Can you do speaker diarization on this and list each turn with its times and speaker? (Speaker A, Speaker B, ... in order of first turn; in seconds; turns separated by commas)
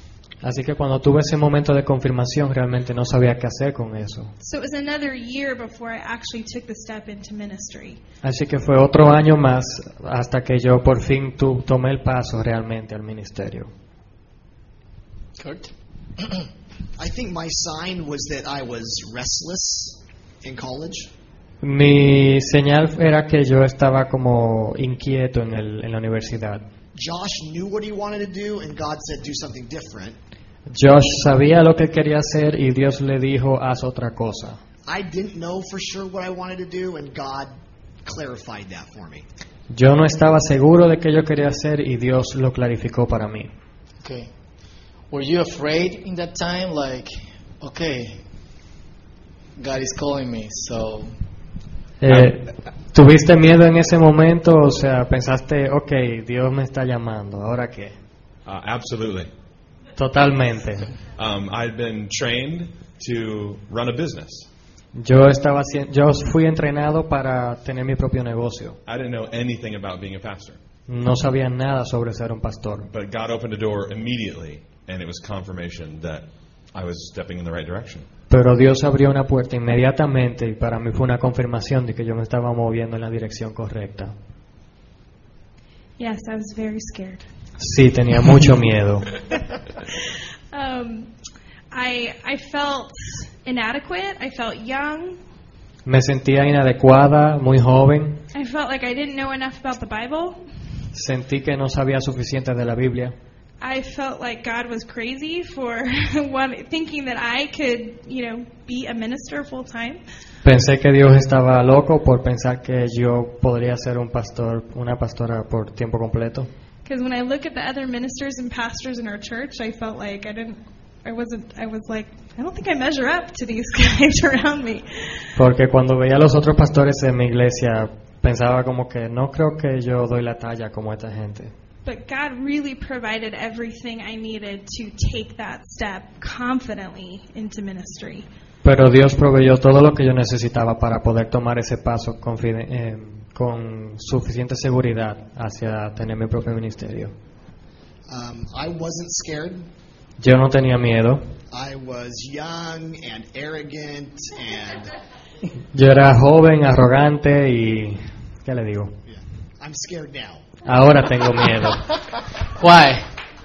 Speaker A: 0.4-4.3, Speaker B: 4.4-8.0, Speaker A: 8.2-13.7, Speaker C: 15.4-15.7, Speaker D: 17.0-21.1, Speaker A: 21.6-26.6, Speaker D: 26.9-30.2, Speaker A: 30.7-34.6, Speaker D: 34.9-37.5, Speaker D: 38.0-39.3, Speaker A: 39.7-43.5, Speaker C: 44.0-44.3, Speaker C: 45.1-48.2, Speaker C: 49.6-51.1, Speaker A: 52.0-58.0, Speaker E: 58.5-59.3, Speaker A: 60.0-60.9, Speaker E: 61.1-64.5, Speaker A: 65.0-68.8, Speaker E: 68.9-70.6, Speaker A: 70.9-72.9, Speaker E: 72.9-78.1, Speaker A: 78.3-84.1, Speaker B: 86.0-87.2, Speaker A: 87.6-89.1, Speaker B: 90.5-91.1, Speaker B: 91.7-95.2, Speaker A: 95.9-98.2, Speaker B: 98.3-100.4, Speaker A: 100.9-103.1, Speaker B: 103.6-110.0, Speaker A: 110.4-116.5, Speaker B: 116.8-125.2, Speaker A: 125.4-131.5, Speaker B: 131.8-138.3, Speaker A: 138.6-147.1, Speaker D: 148.1-149.7, Speaker A: 150.2-151.3, Speaker D: 151.5-154.9, Speaker A: 155.7-158.9, Speaker D: 159.1-160.4, Speaker A: 160.6-161.8, Speaker C: 162.6-163.1